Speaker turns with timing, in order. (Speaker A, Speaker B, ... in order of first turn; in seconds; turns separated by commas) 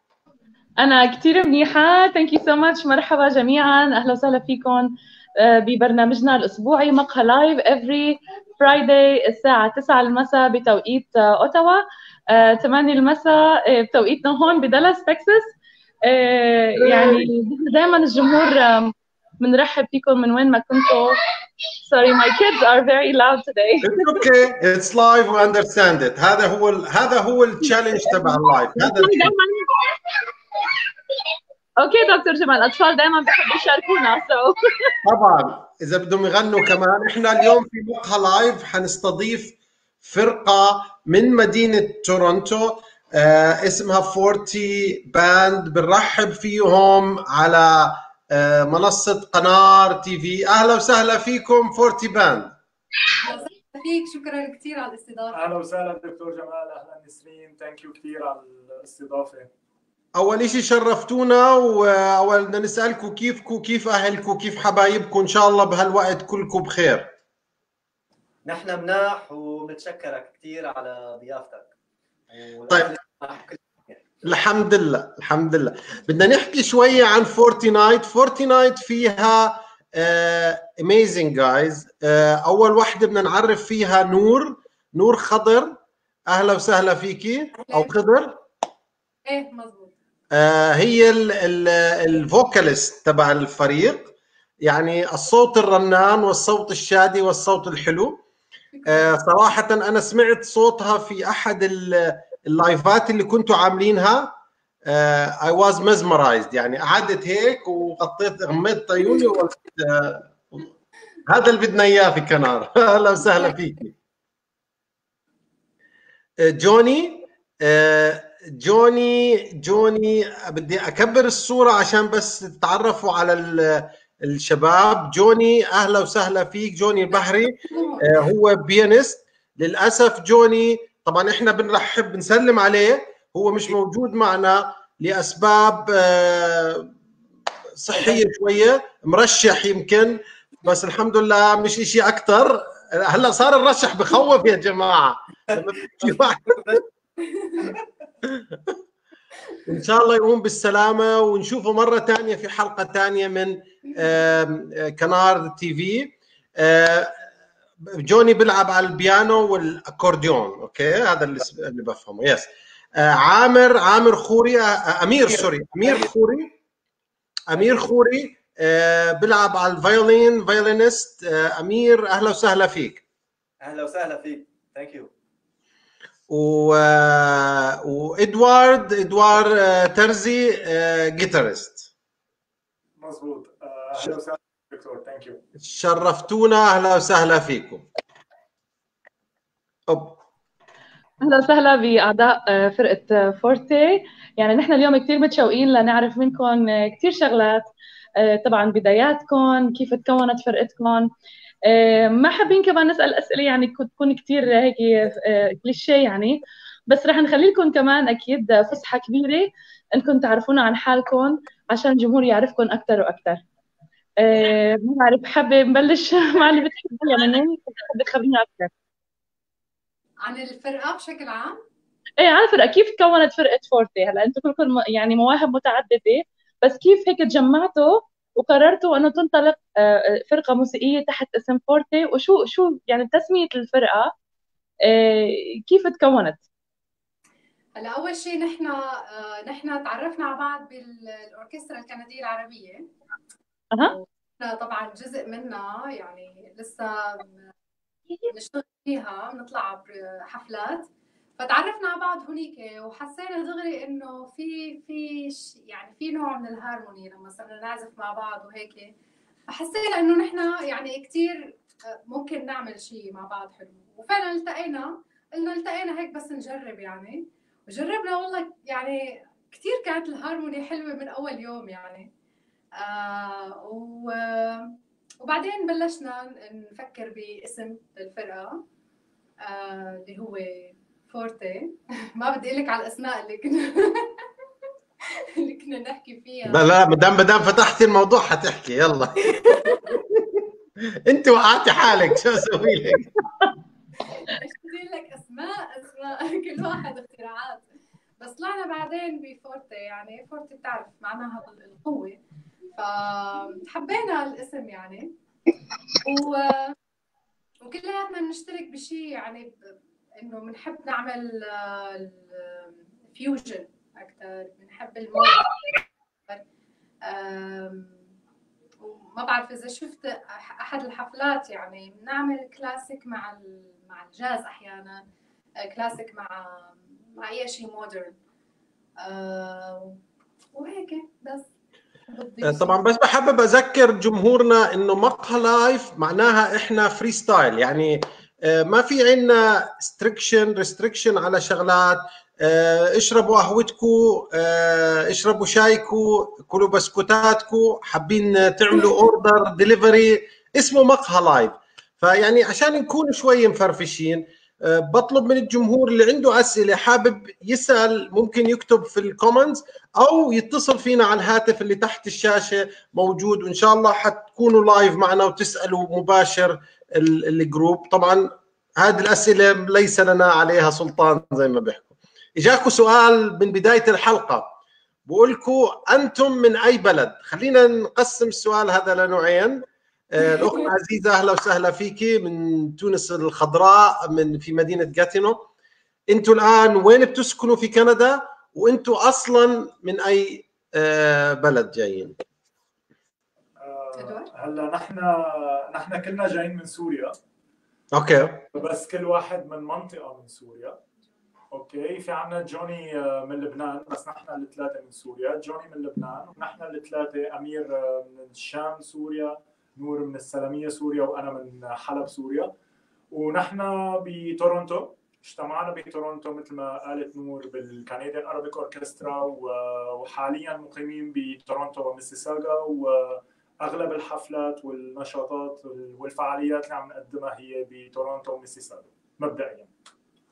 Speaker A: 0.8-15.5, Speaker A: 16.1-21.2, Speaker B: 16.8-17.3, Speaker A: 21.9-24.0, Speaker B: 23.8-29.3, Speaker A: 28.0-30.3, Speaker A: 31.8-35.0, Speaker B: 35.0-52.5, Speaker C: 53.2-55.5, Speaker D: 55.3-59.5, Speaker B: 60.1-67.1, Speaker E: 68.4-71.7, Speaker E: 72.3-74.0, Speaker B: 72.7-73.0, Speaker B: 74.2-85.8, Speaker B: 86.3-88.4, Speaker C: 89.2-89.9, Speaker B: 90.3-98.2, Speaker C: 98.7-99.1, Speaker B: 98.8-110.7, Speaker B: 111.3-113.9, Speaker B: 116.4-136.9, Speaker C: 127.2-128.2, Speaker B: 137.8-146.8, Speaker E: 137.9-138.2, Speaker E: 145.5-146.8, Speaker E: 147.6-147.8, Speaker B: 148.3-148.7, Speaker B: 149.7-157.3, Speaker B: 157.8-166.5, Speaker E: 165.3-166.1, Speaker B: 167.5-173.0, Speaker E: 167.5-167.8, Speaker E: 173.6-175.1, Speaker B: 176.3-181.9, Speaker D: 183.0-185.4, Speaker B: 185.6-187.8, Speaker B: 189.9-190.2, Speaker A: 191.2-197.7, Speaker A: 198.2-201.1, Speaker A: 201.7-213.4, Speaker A: 214.2-218.7, Speaker C: 220.2-221.6, Speaker A: 222.2-234.1, Speaker A: 234.9-236.4, Speaker C: 237.7-242.9, Speaker C: 243.9-247.4, Speaker C: 248.3-258.9, Speaker C: 259.5-272.1, Speaker C: 272.8-278.6, Speaker C: 279.4-284.2, Speaker C: 285.4-286.8, Speaker B: 286.5-290.4, Speaker C: 289.4-289.8, Speaker B: 291.1-293.1, Speaker C: 294.1-297.6, Speaker C: 298.2-302.2, Speaker C: 302.7-305.1, Speaker C: 306.0-306.7, Speaker C: 307.6-315.7, Speaker C: 317.0-318.1, Speaker C: 318.8-325.0, Speaker C: 325.6-328.1, Speaker C: 329.0-330.0, Speaker C: 330.5-331.5, Speaker C: 332.1-332.8, Speaker B: 332.4-374.5, Speaker B: 375.1-385.4, Speaker B: 386.1-392.1, Speaker D: 393.6-397.1, Speaker C: 393.9-394.3, Speaker B: 397.9-398.5, Speaker D: 398.5-400.8, Speaker D: 401.5-412.5, Speaker D: 413.1-429.7